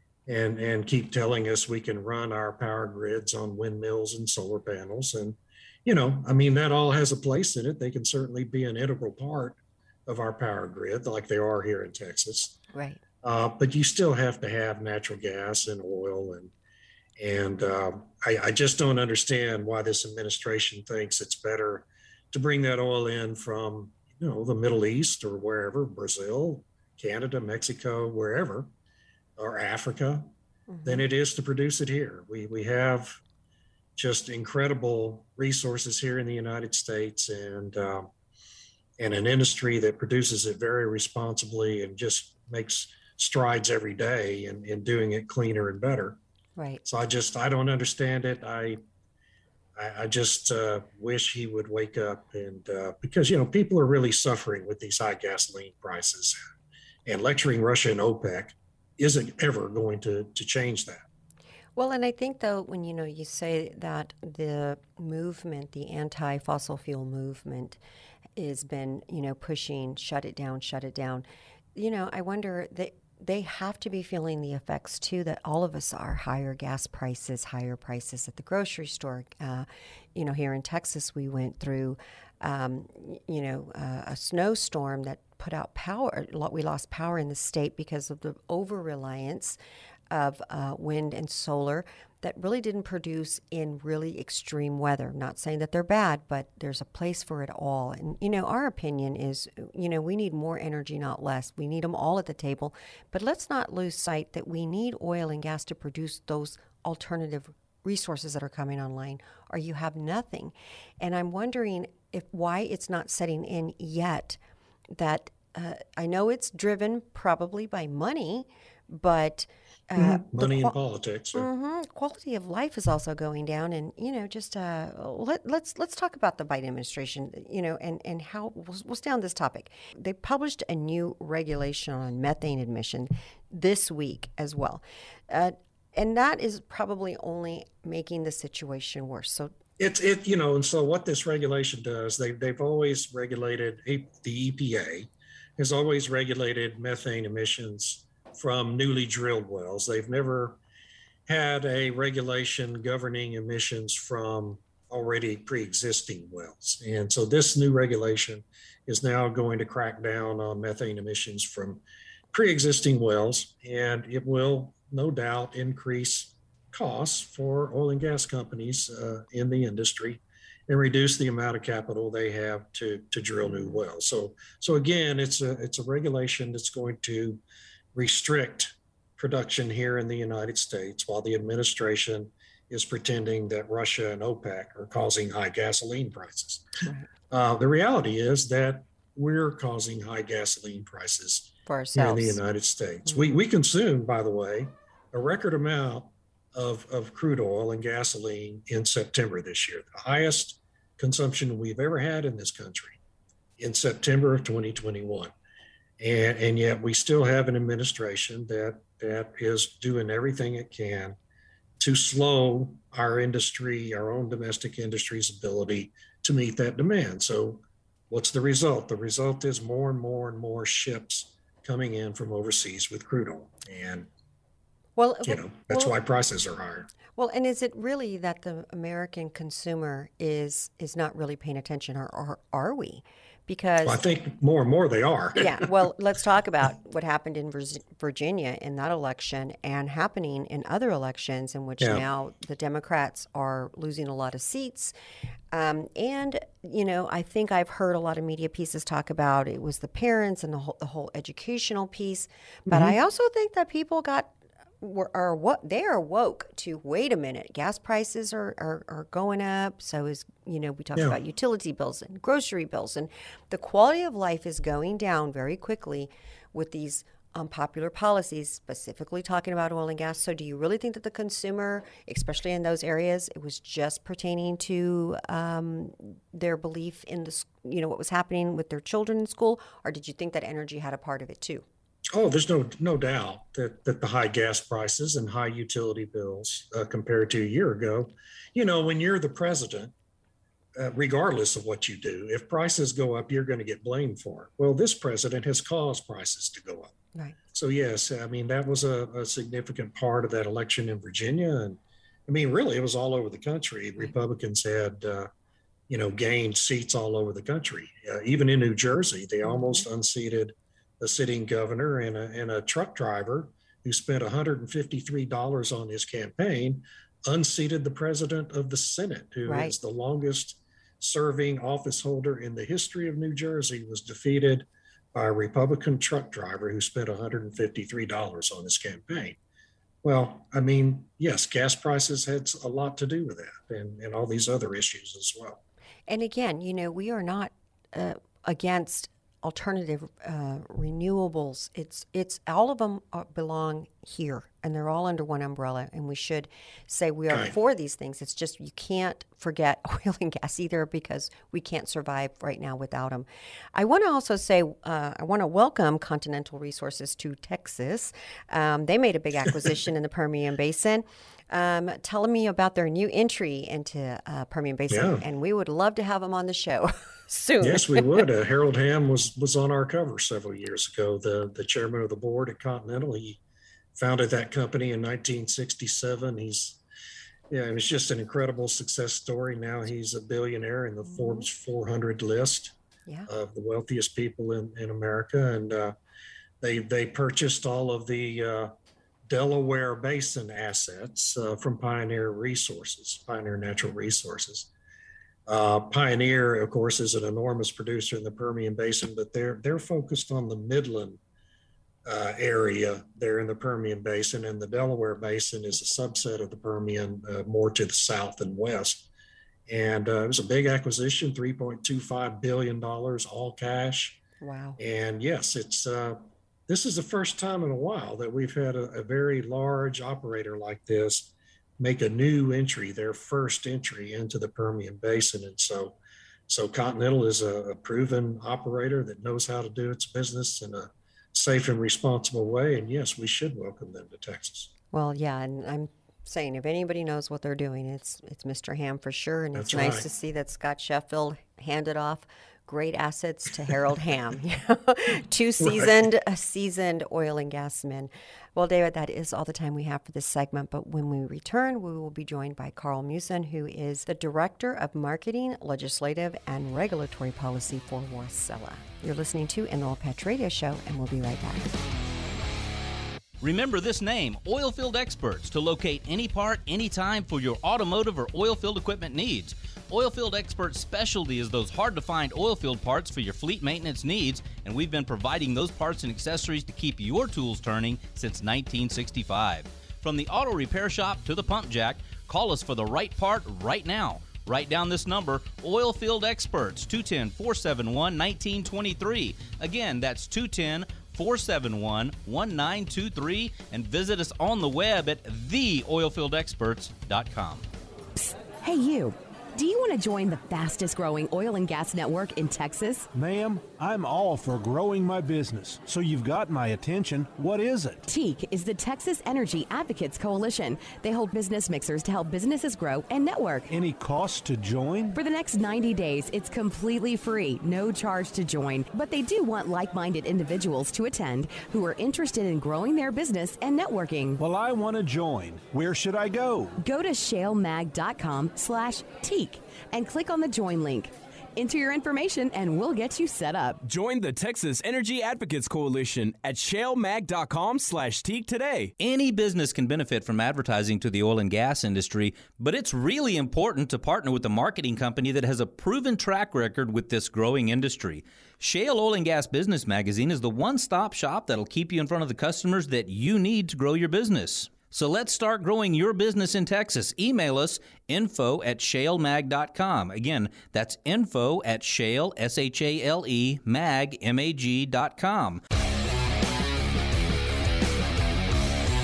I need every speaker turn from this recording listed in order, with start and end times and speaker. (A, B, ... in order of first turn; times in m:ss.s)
0:00.3-0:12.6 A
0:12.7-0:13.0 B
0:13.2-0:16.5 A
0:17.2-0:28.7 A
0:29.4-0:30.3 A
0:30.7-0:31.0 B
0:30.8-0:33.2 A
0:34.0-0:38.1 A
0:39.0-0:46.2 A
0:46.6-0:46.8 B
0:46.8-0:48.8 A
0:49.8-0:56.4 A
0:57.0-1:01.0 A
1:01.8-1:07.8 B
1:08.4-1:29.6 B
1:30.1-1:54.4 B
1:54.9-2:00.7 B
2:00.0-2:01.5 A
2:01.3-2:19.5 B
2:19.8-2:30.6 A
2:31.3-2:57.4 A
2:57.9-3:06.7 A
3:06.8-3:07.1 B
3:07.3-3:23.0 A
3:11.7-3:12.4 B
3:23.6-3:25.3 A
3:26.0-3:31.2 A
3:31.8-3:44.1 A
3:45.0-3:45.9 B
3:45.2-3:46.9 A
3:47.2-3:54.0 B
3:53.8-3:55.6 A
3:55.4-4:04.9 B
4:01.8-4:02.0 A
4:05.5-4:41.6 B
4:12.7-4:12.9 A
4:42.1-4:49.9 A
4:50.8-4:56.9 A
4:57.5-5:05.3 A
5:05.9-5:29.4 A
5:09.5-5:09.8 B
5:19.4-5:19.7 B
5:30.0-5:35.6 A
5:36.1-6:08.2 B
6:04.9-6:05.2 A
6:07.6-6:13.4 A
6:13.9-6:16.8 A
6:17.5-6:22.8 A
6:21.1-6:21.4 B
6:23.3-6:26.0 A
6:26.6-6:28.7 A
6:29.3-6:34.7 A
6:35.5-6:41.2 A
6:42.0-6:49.1 A
6:49.7-6:54.2 A
6:54.4-6:54.8 B
6:54.8-7:06.0 A
7:06.5-7:14.7 A
7:14.9-7:41.7 B
7:19.5-7:20.1 A
7:25.6-7:26.0 A
7:43.4-8:17.6 C
8:18.2-8:23.1 D
8:23.1-8:28.0 E
8:28.0-8:33.7 D
8:33.7-8:35.2 E
8:35.1-8:44.4 D
8:44.4-8:46.8 E
8:46.8-8:53.8 D
8:53.8-8:58.9 F
8:59.0-9:25.6 C